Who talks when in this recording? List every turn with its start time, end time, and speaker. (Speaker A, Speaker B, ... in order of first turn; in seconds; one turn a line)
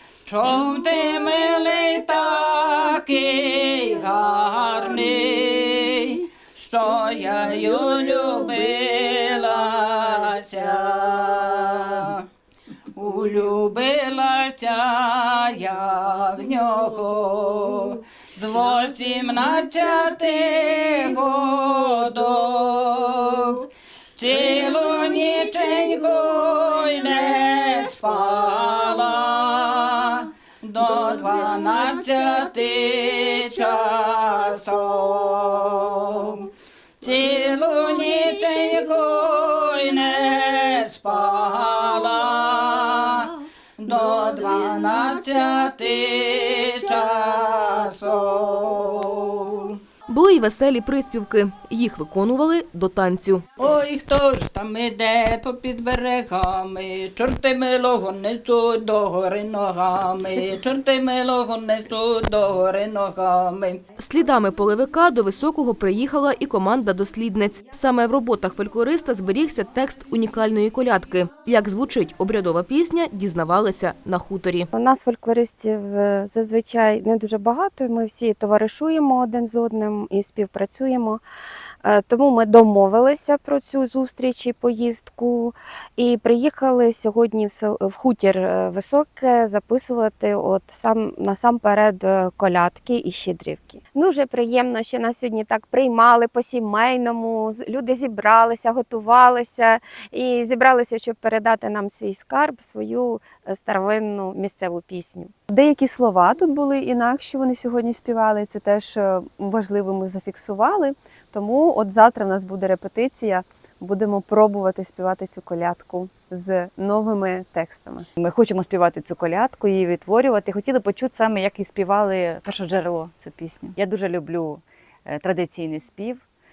Speaker A: 0.2-12.3
Speaker A: 12.9-36.5
Speaker A: 37.0-49.8
Speaker B: 50.1-53.5
Speaker A: 53.6-63.8
Speaker B: 64.0-74.7
Speaker C: 74.7-81.2
Speaker C: 81.8-105.3
Speaker D: 105.5-118.1
Speaker E: 118.2-126.2